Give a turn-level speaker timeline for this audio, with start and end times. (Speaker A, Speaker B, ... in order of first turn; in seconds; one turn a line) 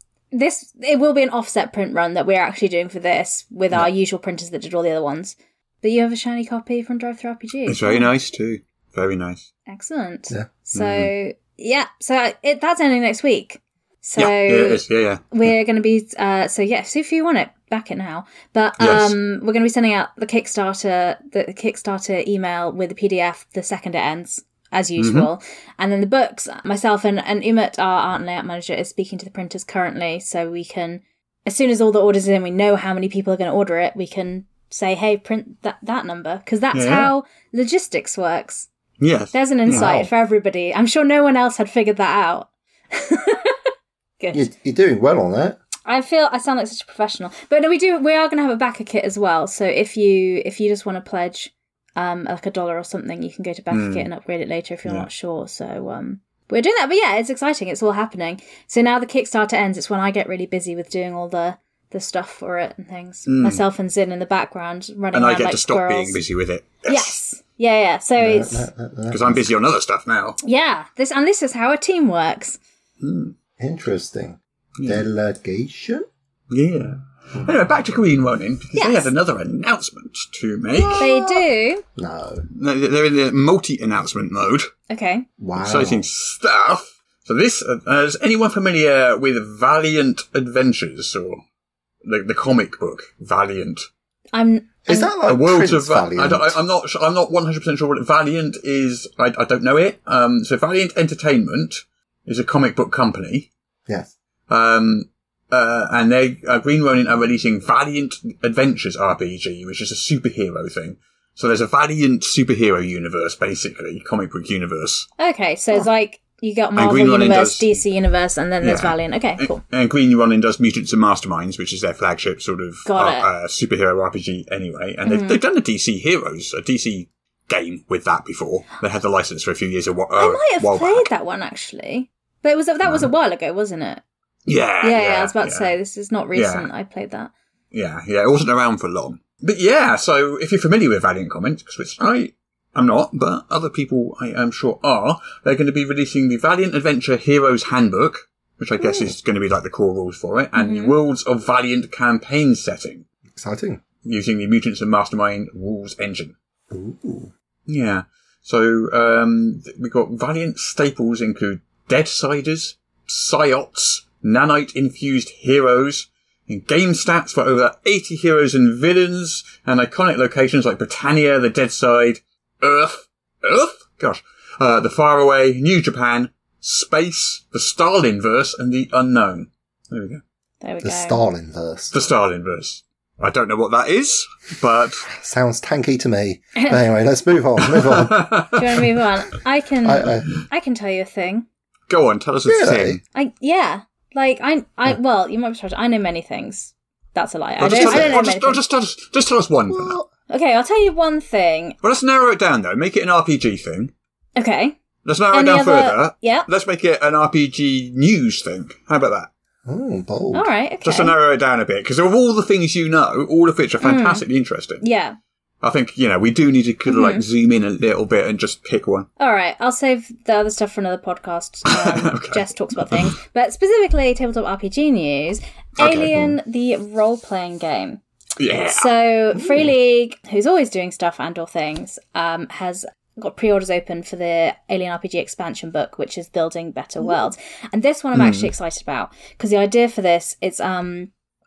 Speaker A: 0.3-8.1
Speaker B: 7.7-9.4
Speaker A: 9.7-38.7
Speaker B: 10.7-11.1
Speaker B: 14.2-15.5
Speaker B: 18.8-19.1
Speaker B: 25.0-25.3
Speaker B: 36.7-37.1
Speaker B: 39.0-39.9
Speaker A: 39.3-43.6
Speaker C: 39.7-40.1
Speaker A: 44.2-44.4
Speaker C: 44.3-45.6
Speaker A: 45.9-66.2
Speaker B: 53.7-54.1
Speaker B: 63.3-63.6
Speaker B: 65.1-67.2
Speaker A: 66.8-68.7
Speaker C: 68.2-69.5
Speaker B: 69.1-70.4
Speaker A: 70.4-72.6
Speaker B: 73.0-73.3
Speaker C: 73.6-76.1
Speaker B: 74.8-75.0
Speaker B: 76.5-81.1
Speaker A: 78.8-79.1
Speaker C: 80.7-81.4
Speaker A: 81.0-81.8
Speaker C: 82.0-82.4
Speaker B: 82.5-84.7
Speaker A: 84.9-85.2
Speaker C: 85.4-86.0
Speaker B: 85.6-91.4
Speaker B: 92.0-93.8
Speaker A: 94.3-95.1
Speaker C: 94.8-96.6
Speaker B: 95.2-103.5
Speaker C: 103.9-104.1
Speaker B: 104.5-115.1
Speaker A: 115.2-119.6
Speaker B: 116.8-117.8
Speaker B: 118.6-131.1
Speaker A: 122.8-123.3
Speaker A: 125.0-125.4
Speaker A: 130.2-134.0
Speaker B: 134.4-135.7
Speaker A: 134.8-137.3
Speaker B: 136.3-136.7
Speaker B: 137.7-153.0
Speaker A: 148.8-149.1
Speaker A: 150.6-150.9
Speaker C: 153.3-153.8
Speaker B: 154.0-156.3
Speaker C: 156.7-157.3
Speaker B: 157.7-180.2
Speaker A: 180.6-181.2
Speaker C: 180.8-181.9
Speaker B: 181.9-185.1
Speaker C: 185.1-188.3
Speaker A: 186.6-186.8
Speaker B: 187.6-188.6
Speaker A: 188.5-191.4
Speaker C: 189.8-190.3
Speaker B: 191.9-193.0
Speaker C: 192.4-193.0
Speaker A: 193.1-198.6
Speaker B: 197.6-200.0
Speaker C: 197.7-198.2
Speaker C: 199.7-200.1
Speaker A: 200.3-201.8
Speaker B: 201.8-203.9
Speaker A: 204.4-204.8
Speaker B: 205.0-209.3
Speaker A: 205.3-206.4
Speaker C: 209.7-210.5
Speaker A: 210.3-211.1
Speaker B: 210.8-214.8
Speaker A: 213.8-214.2
Speaker A: 214.8-215.2
Speaker B: 215.6-219.1
Speaker A: 216.9-217.2
Speaker A: 219.2-241.1
Speaker B: 221.7-223.1
Speaker B: 225.8-226.2
Speaker B: 228.4-228.9
Speaker B: 238.1-238.5